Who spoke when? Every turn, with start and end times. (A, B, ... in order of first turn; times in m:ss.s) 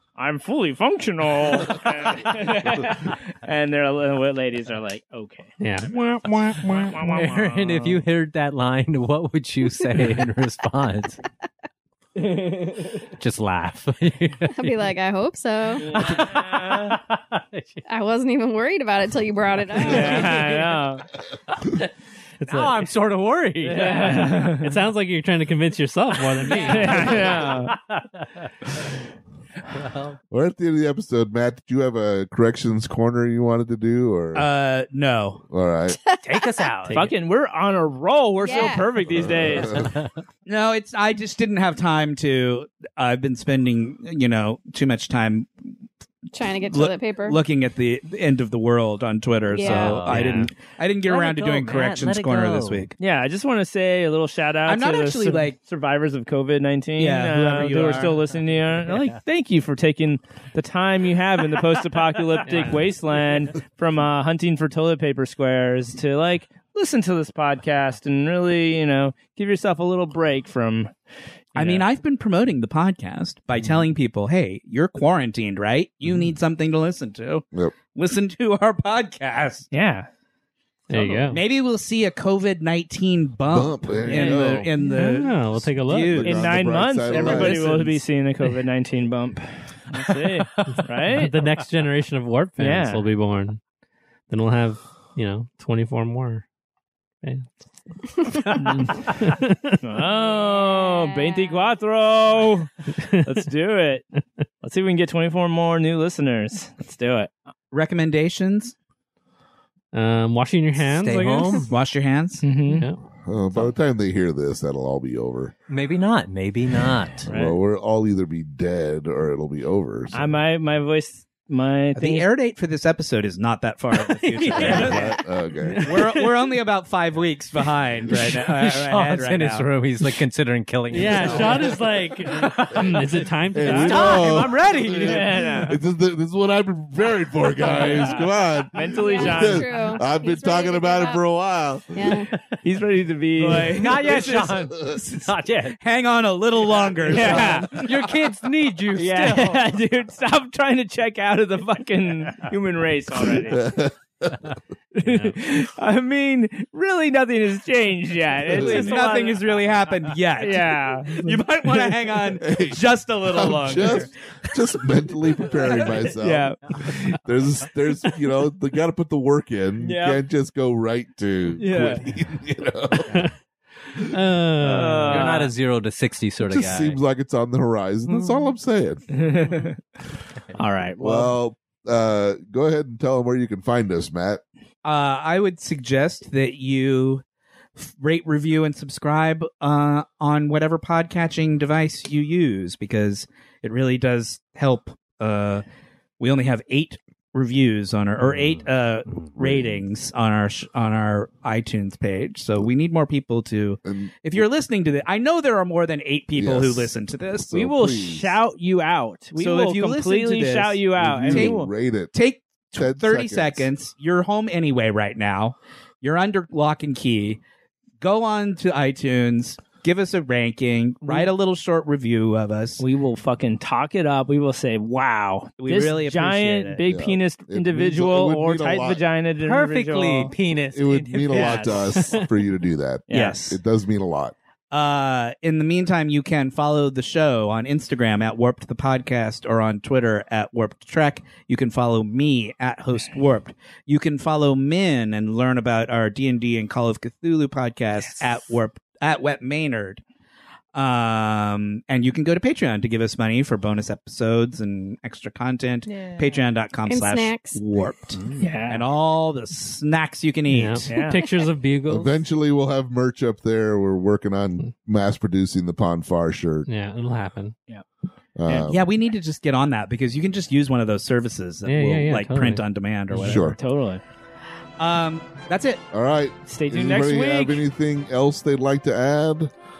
0:00.2-0:05.6 A
0:05.6-0:07.0 B
0:06.6-0:08.0 A
0:07.0-0:11.2 C
0:12.2-0:13.0 A
0:13.1-0:14.9 C
0:14.6-0:15.9 D
0:15.8-0:17.0 A
0:15.8-0:17.8 C
0:17.9-0:20.6 D
0:19.8-0:21.0 A
0:19.9-0:20.4 C
0:22.4-0:22.9 B
0:22.5-0:24.4 C
0:23.6-0:24.8 A
0:24.5-0:27.3 B
0:26.4-0:28.8 C
0:26.5-0:27.8 A
0:29.7-0:30.2 C
0:30.3-0:34.5 E
0:34.3-0:35.4 F
0:35.5-0:36.0 E
0:35.9-0:36.7 D
0:36.2-0:37.1 C
0:36.9-0:39.9 A
0:38.4-0:39.0 D
0:39.1-0:40.0 E
0:39.7-0:40.1 C
0:40.5-0:45.5 F
0:46.3-0:47.4 D
0:46.6-0:52.9 F
0:49.5-0:50.2 D
0:49.6-0:50.5 C
0:51.0-0:52.9 C
0:53.0-1:11.0 A
0:54.7-0:55.6 F
0:57.0-0:58.2 F
1:02.5-1:02.8 B
1:11.5-1:11.9 A
1:11.6-1:19.7 F
1:19.7-1:20.1 A
1:20.9-1:21.4 B
1:21.0-1:21.2 E
1:21.3-1:27.8 F
1:23.5-1:24.7 E
1:24.0-1:24.7 A
1:24.8-1:26.2 B
1:25.6-1:27.8 E
1:26.2-1:31.3 A
1:30.0-1:30.8 C
1:31.1-1:33.6 B
1:32.6-1:33.0 A
1:34.3-1:36.4 B
1:37.2-1:39.8 B
1:39.8-1:42.7 A
1:40.3-1:41.7 D
1:43.0-1:43.4 B
1:43.2-1:44.0 A
1:44.6-1:47.3 A
1:47.7-1:48.8 F
1:49.9-1:51.7 B
1:50.8-1:51.7 C
1:51.6-1:52.4 F
1:52.4-1:52.9 A
1:52.7-1:53.0 B
1:53.2-1:55.5 E
1:55.7-1:57.3 C
1:57.3-2:00.4 E
1:57.3-1:57.5 A
2:00.1-2:02.3 A
2:02.0-2:05.2 F
2:04.1-2:05.0 B
2:04.6-2:06.0 E
2:04.6-2:05.1 A
2:05.6-2:06.3 B
2:05.8-2:09.7 F
2:08.1-2:15.6 C
2:10.9-2:14.4 B
2:11.0-2:11.8 E
2:12.4-2:22.2 E
2:14.9-2:15.8 A
2:17.6-2:20.0 A
2:18.8-2:21.2 D
2:21.9-2:22.3 D
2:22.6-2:24.1 A
2:23.4-2:28.2 F
2:23.4-2:25.8 C
2:27.0-2:29.7 C
2:27.0-2:27.8 A
2:28.9-2:33.7 A
2:33.4-2:34.5 E
2:35.0-2:39.5 A
2:35.0-2:35.4 B
2:38.5-2:44.1 F
2:38.5-2:38.9 E
2:40.4-2:41.9 A
2:42.4-2:53.3 E
2:45.4-2:47.2 A
2:49.8-2:50.2 A
2:51.6-2:52.1 A
2:54.0-2:55.4 B
2:54.6-2:57.0 C
2:54.7-2:55.6 A
2:56.4-2:59.1 E
2:59.1-2:59.8 A
3:00.6-3:01.4 A
3:01.0-3:04.4 E
3:04.8-3:07.2 F
3:07.8-3:15.6 F
3:16.2-3:27.6 F
3:18.3-3:19.3 C
3:19.4-3:19.8 E
3:23.8-3:24.4 E
3:26.4-3:26.9 E
3:27.5-3:28.3 E
3:27.5-3:31.7 A
3:29.4-3:31.6 F
3:31.0-3:32.1 E
3:32.1-3:37.4 F
3:32.7-3:33.7 E
3:38.0-3:42.8 F
3:41.0-3:41.3 A
3:42.8-3:50.3 A
3:45.6-3:46.8 F
3:46.9-3:49.0 E
3:49.4-3:51.8 C
3:50.7-3:54.3 E
3:51.3-3:52.2 A
3:53.1-3:53.4 A
3:53.1-3:53.6 F
3:54.7-4:10.0 F
4:10.7-4:20.9 F
4:16.9-4:17.6 D
4:18.2-4:18.5 C
4:18.4-4:18.9 A
4:20.5-4:22.2 B
4:20.8-4:21.3 A
4:21.9-4:26.7 E
4:26.7-4:27.6 B
4:28.4-4:28.8 E
4:28.7-4:33.6 F
4:31.6-4:32.6 B
4:33.2-4:34.0 A
4:33.2-4:33.6 E
4:34.8-4:35.8 F
4:35.9-4:39.5 E
4:36.5-4:37.6 A